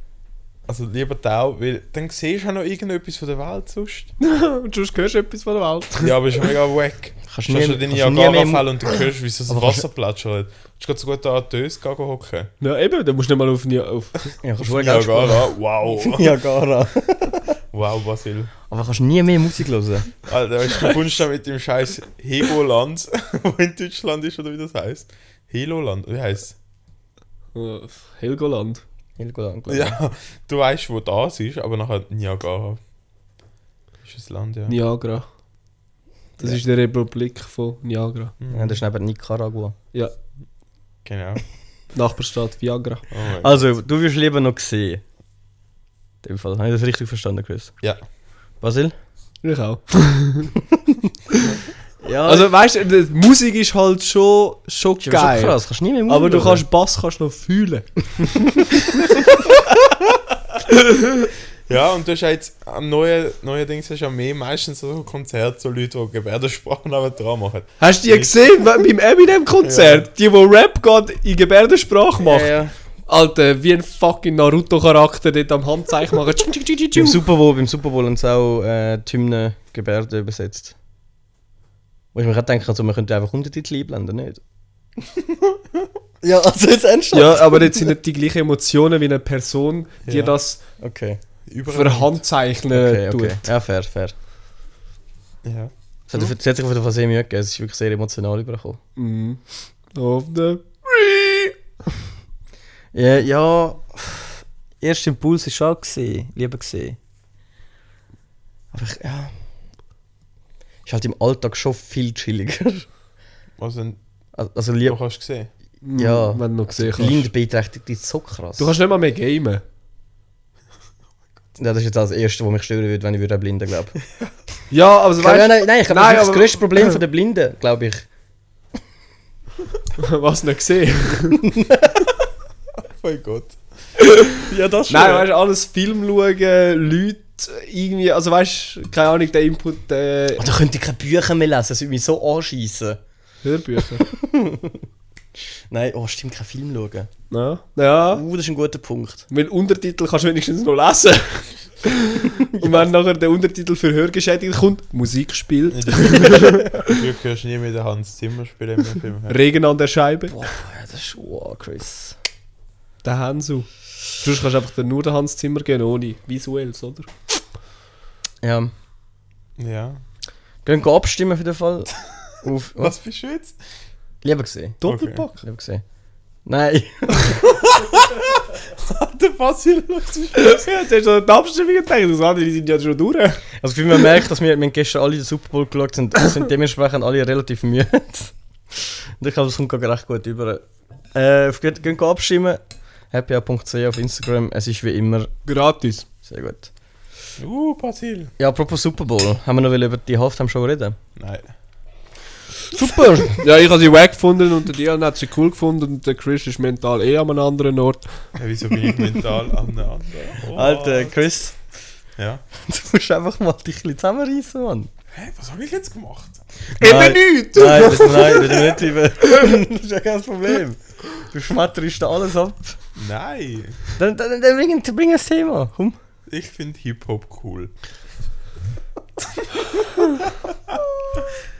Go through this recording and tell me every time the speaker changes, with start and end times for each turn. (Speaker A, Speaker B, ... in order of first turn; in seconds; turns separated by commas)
Speaker A: 0.7-4.1, Speaker B: 4.2-6.2, Speaker A: 6.0-12.5, Speaker C: 7.3-9.0, Speaker C: 9.5-9.8, Speaker B: 12.6-14.3, Speaker C: 14.4-17.4, Speaker A: 14.6-16.4, Speaker A: 17.7-18.5, Speaker C: 18.7-20.2, Speaker A: 20.3-26.6, Speaker B: 27.6-28.8, Speaker C: 29.2-30.0, Speaker A: 29.7-32.8, Speaker A: 34.0-34.8, Speaker B: 34.7-35.3, Speaker B: 36.4-38.4, Speaker A: 38.4-38.8, Speaker C: 38.5-39.8, Speaker A: 41.0-41.4, Speaker B: 41.9-43.1, Speaker A: 43.1-43.7, Speaker C: 43.4-45.0, Speaker C: 46.2-47.7, Speaker C: 48.6-49.0, Speaker B: 49.4-50.5, Speaker C: 52.0-52.5, Speaker B: 52.3-58.3, Speaker C: 55.0-56.6, Speaker A: 61.7-68.4, Speaker B: 67.8-72.5, Speaker A: 69.6-70.1, Speaker C: 72.2-72.7, Speaker B: 73.1-77.2, Speaker C: 76.9-80.8, Speaker C: 82.1-84.4, Speaker C: 86.2-87.9, Speaker B: 87.1-90.6, Speaker A: 90.1-90.4, Speaker C: 90.8-91.2, Speaker A: 91.5-92.2, Speaker B: 91.7-93.4, Speaker C: 92.7-94.1, Speaker A: 95.4-96.3, Speaker C: 96.1-98.8, Speaker B: 99.0-99.4, Speaker B: 99.9-101.5, Speaker C: 102.9-107.0, Speaker C: 108.7-109.3, Speaker C: 110.9-112.9, Speaker A: 113.6-114.0, Speaker C: 114.3-115.0, Speaker A: 114.9-115.5, Speaker B: 115.8-117.3, Speaker C: 116.0-118.8, Speaker B: 118.6-119.6, Speaker C: 121.6-124.0, Speaker B: 124.7-127.0, Speaker C: 125.2-128.0, Speaker B: 130.0-131.5, Speaker C: 131.5-131.9, Speaker A: 133.0-133.6, Speaker C: 134.5-135.3, Speaker B: 134.9-140.4, Speaker C: 140.4-143.0, Speaker B: 143.4-144.0, Speaker C: 144.0-144.8, Speaker C: 145.7-147.1, Speaker B: 147.3-148.2, Speaker C: 148.1-149.3, Speaker B: 149.3-156.9, Speaker C: 152.5-152.9, Speaker A: 155.7-159.4, Speaker B: 159.3-160.3, Speaker C: 160.3-162.2, Speaker B: 163.0-167.1, Speaker C: 168.4-168.7, Speaker A: 169.6-170.0, Speaker C: 170.7-171.9, Speaker C: 172.4-172.9, Speaker A: 172.8-173.6, Speaker C: 174.2-175.8, Speaker B: 174.8-175.4, Speaker A: 174.8-175.3, Speaker C: 176.4-177.4, Speaker A: 177.8-178.2, Speaker A: 178.8-180.7, Speaker B: 180.3-183.4, Speaker C: 183.6-190.6, Speaker C: 191.2-195.3, Speaker B: 195.4-196.1, Speaker C: 196.2-196.7, Speaker A: 197.4-198.3, Speaker C: 198.4-201.0, Speaker A: 201.2-201.5, Speaker B: 202.8-208.1, Speaker C: 202.8-203.4, Speaker A: 208.4-211.1, Speaker C: 210.6-211.6, Speaker A: 212.2-212.4, Speaker C: 212.6-214.9, Speaker A: 215.1-216.4, Speaker B: 216.8-218.8, Speaker C: 216.8-222.8, Speaker A: 223.0-223.8, Speaker C: 224.0-226.0, Speaker A: 226.3-227.7